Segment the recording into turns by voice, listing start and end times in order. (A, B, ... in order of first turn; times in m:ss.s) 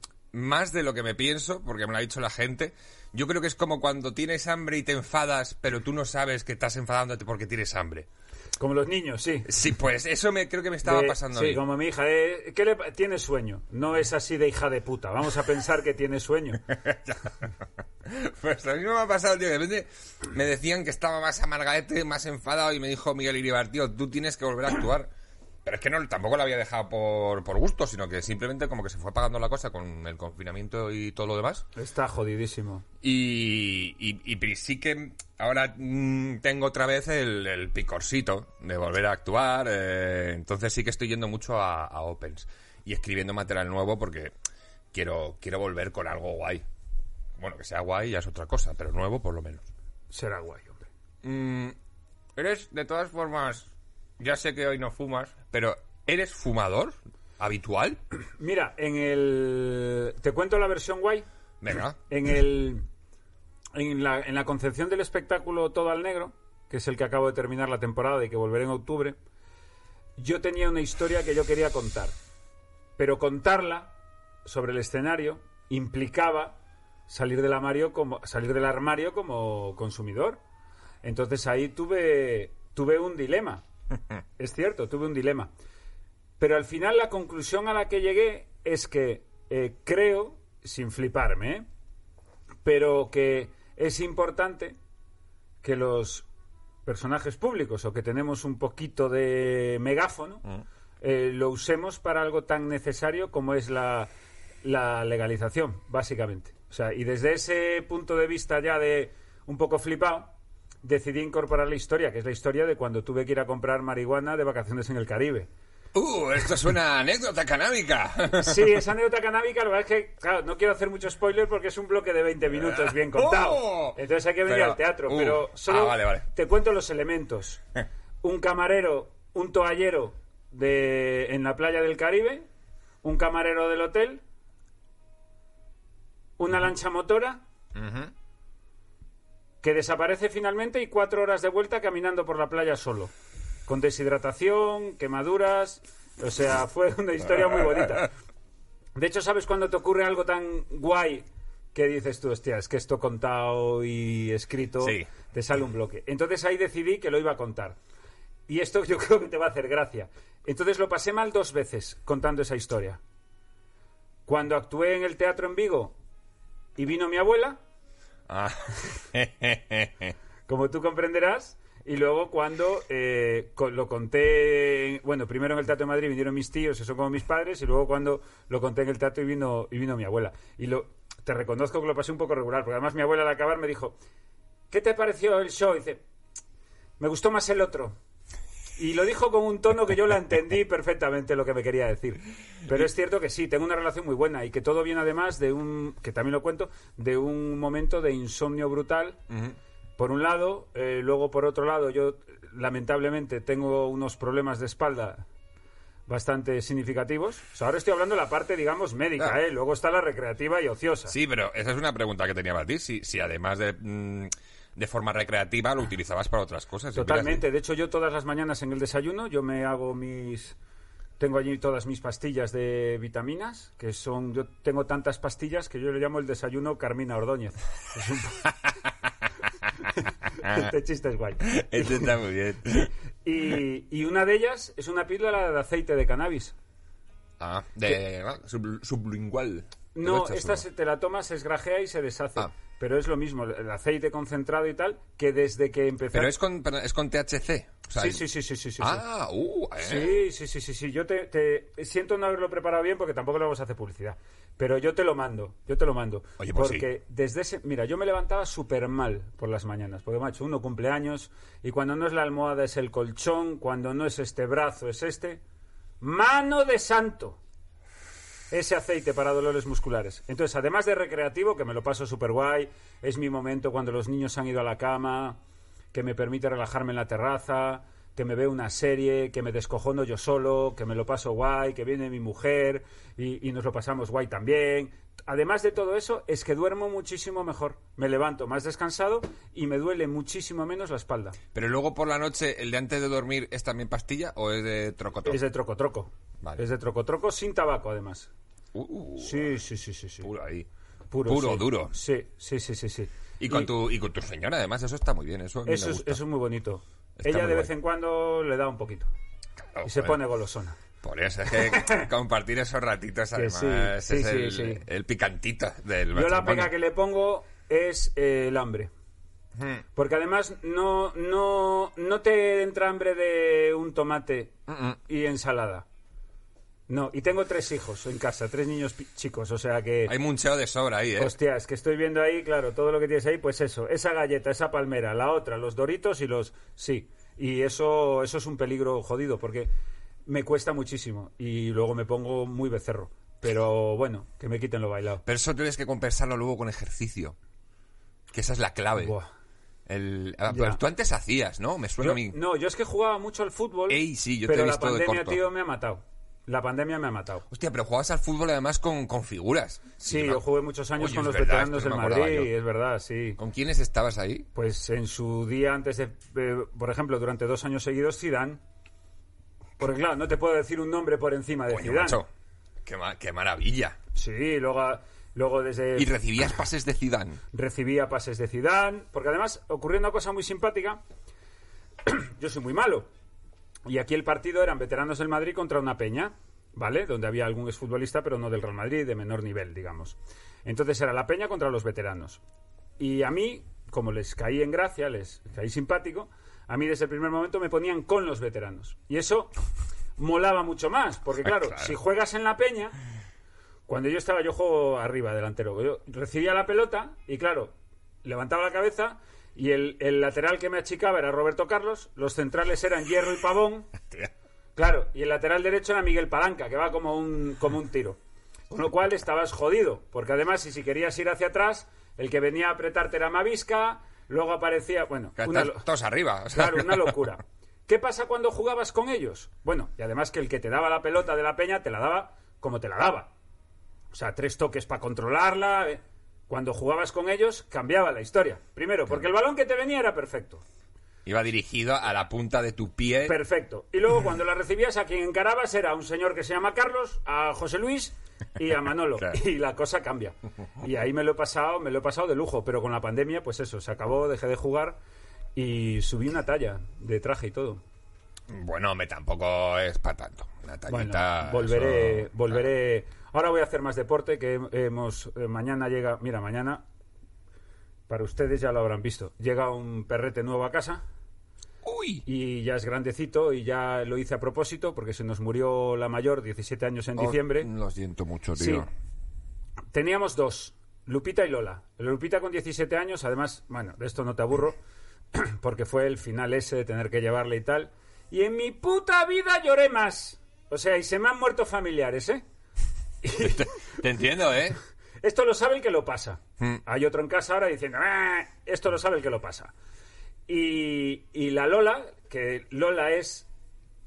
0:00.3-0:08.1 A
0:08.6-0:09.5 B
0:09.5-0:11.6 A
0:10.8-0:16.6 B
0:16.7-0:17.5 A
0:18.0-0:25.1 A
0:25.6-0:31.6 A
0:31.8-0:32.8 B
0:33.0-0:44.3 A
0:44.9-0:46.6 A
0:47.4-0:49.6 A
0:50.1-0:50.9 B
0:51.2-0:51.8 A
0:52.4-0:58.0 A
0:58.4-1:01.2 B
1:01.6-1:02.0 A
1:02.1-1:02.8 B
1:03.7-1:09.2 B
1:10.2-1:12.1 B
1:13.0-1:13.9 B
1:14.4-1:16.6 B
1:17.1-1:20.4 B
1:21.0-1:23.6 B
1:24.4-1:25.5 B
1:26.4-1:31.6 B
1:32.6-1:34.8 B
1:35.6-1:36.3 B
1:36.8-1:40.4 B
1:41.0-1:44.1 B
1:44.6-1:55.5 B
1:55.9-1:58.8 A
1:58.4-2:07.6 B
2:02.6-2:06.3 A
2:08.2-2:12.5 B
2:13.0-2:14.2 B
2:16.4-2:17.4 B
2:17.7-2:18.1 A
2:19.6-2:23.1 B
2:23.7-2:28.1 B
2:28.9-2:37.8 B
2:34.8-2:35.1 A
2:38.5-2:43.0 B
2:44.2-2:45.9 B
2:46.8-2:47.6 B
2:48.3-2:50.1 A
2:50.5-3:04.0 B
3:04.7-3:06.0 B
3:07.0-3:08.0 B
3:08.8-3:19.2 B
3:19.3-3:19.5 A
3:20.0-3:25.2 B
3:26.1-3:31.1 B
3:31.1-3:37.4 A
3:36.9-3:40.6 B
3:41.2-3:48.5 B
3:50.0-3:52.2 B
3:50.4-3:50.7 A
3:51.4-3:52.9 A
3:53.2-3:56.5 B
3:57.4-4:00.6 A
3:59.9-4:06.3 B
4:06.1-4:08.2 A
4:08.0-4:09.0 B
4:08.8-4:10.1 A
4:09.8-4:25.4 B
4:16.4-4:16.9 A
4:26.0-4:27.4 B
4:28.5-4:35.4 B
4:35.9-4:51.4 B
4:51.5-4:55.4 A
4:55.2-4:58.3 B
4:58.7-4:59.5 A
4:59.2-5:00.3 B
5:00.2-5:00.7 A
5:01.1-5:03.7 B
5:01.2-5:01.9 A
5:03.4-5:06.2 A
5:05.6-5:09.1 B
5:07.2-5:07.7 A
5:09.7-5:10.2 A
5:09.8-5:10.8 B
5:11.0-5:16.7 A
5:11.5-5:12.1 B
5:13.3-5:14.8 B
5:16.1-5:18.9 B
5:19.6-5:19.8 A
5:19.9-5:24.5 B
5:24.7-5:25.0 A
5:25.0-5:25.8 B
5:26.9-5:30.1 B
5:30.1-5:31.4 A
5:31.2-5:39.7 B
5:40.2-5:45.2 B
5:45.2-5:47.4 A
5:48.3-5:49.1 A
5:49.0-5:49.3 B
5:49.9-5:52.4 A
5:50.5-5:50.8 B
5:52.0-5:57.4 B
5:53.9-5:55.4 A
5:57.5-6:00.4 A
6:00.0-6:03.4 B
6:01.0-6:02.5 A
6:03.4-6:04.5 A
6:04.5-6:08.6 B
6:09.8-6:12.2 B
6:11.7-6:12.3 A
6:12.8-6:14.0 A
6:14.1-6:16.1 B
6:16.0-6:17.4 A
6:17.5-6:21.0 B
6:22.0-6:23.1 B
6:23.8-6:32.4 B
6:33.0-6:39.5 B
6:40.2-6:43.0 B
6:41.4-6:41.9 A
6:43.9-6:53.9 B
6:54.8-6:58.2 B
6:58.7-7:05.8 B
7:05.4-7:07.2 A
7:06.5-7:13.3 B
7:14.1-7:20.6 B
7:21.2-7:23.4 A
7:23.2-7:35.0 B
7:35.5-7:37.8 B
7:38.5-7:42.6 A
7:40.9-7:46.8 B
7:48.1-7:51.0 B
7:51.8-7:52.2 A
7:52.2-7:57.7 B
7:57.2-7:58.9 A
7:58.6-7:58.9 B
7:59.9-8:04.8 B
8:05.3-8:12.4 B
8:13.2-8:13.7 B
8:13.4-8:14.8 A
8:15.2-8:19.7 B
8:20.5-8:23.5 B